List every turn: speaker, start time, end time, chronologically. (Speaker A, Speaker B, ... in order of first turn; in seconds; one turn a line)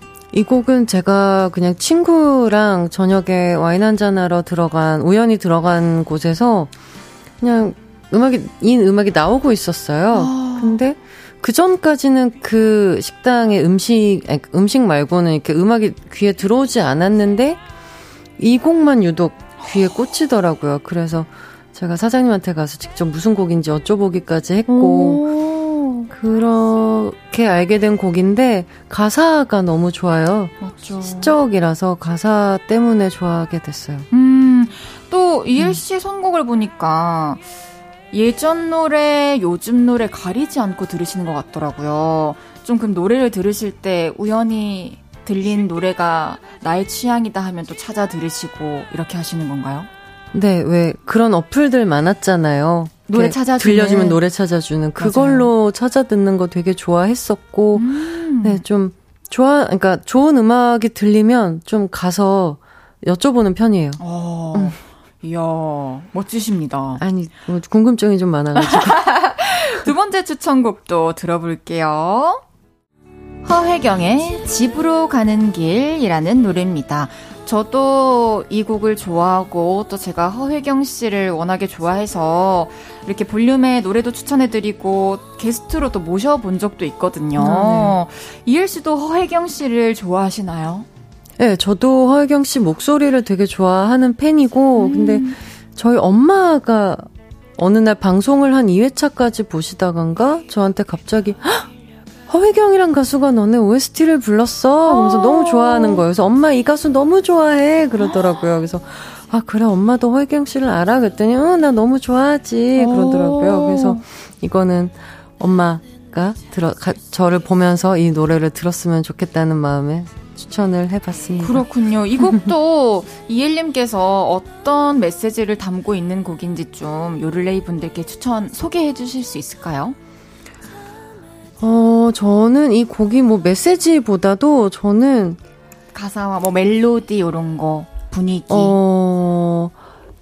Speaker A: 0.3-6.7
Speaker A: 7.4-17.6
Speaker B: 10.1-10.8
Speaker A: 18.4-25.2
Speaker B: 24.7-26.1
Speaker A: 26.1-34.1
Speaker B: 30.6-31.3
Speaker B: 34.1-37.4
Speaker B: 38.1-49.9
Speaker A: 50.3-57.9
Speaker B: 53.1-54.2
Speaker B: 55.0-55.5
Speaker B: 57.7-58.6
Speaker A: 58.4-64.0
Speaker B: 64.0-67.0
Speaker A: 67.0-69.0
Speaker B: 68.6-72.4
Speaker B: 73.4-90.9
Speaker A: 87.4-88.0
Speaker A: 91.4-101.7
Speaker B: 94.8-95.4
Speaker A: 102.3-121.6
Speaker B: 104.8-106.0
Speaker B: 112.7-114.0
Speaker B: 121.4-130.0
Speaker A: 131.6-135.4
Speaker B: 135.9-138.7
Speaker A: 138.5-139.7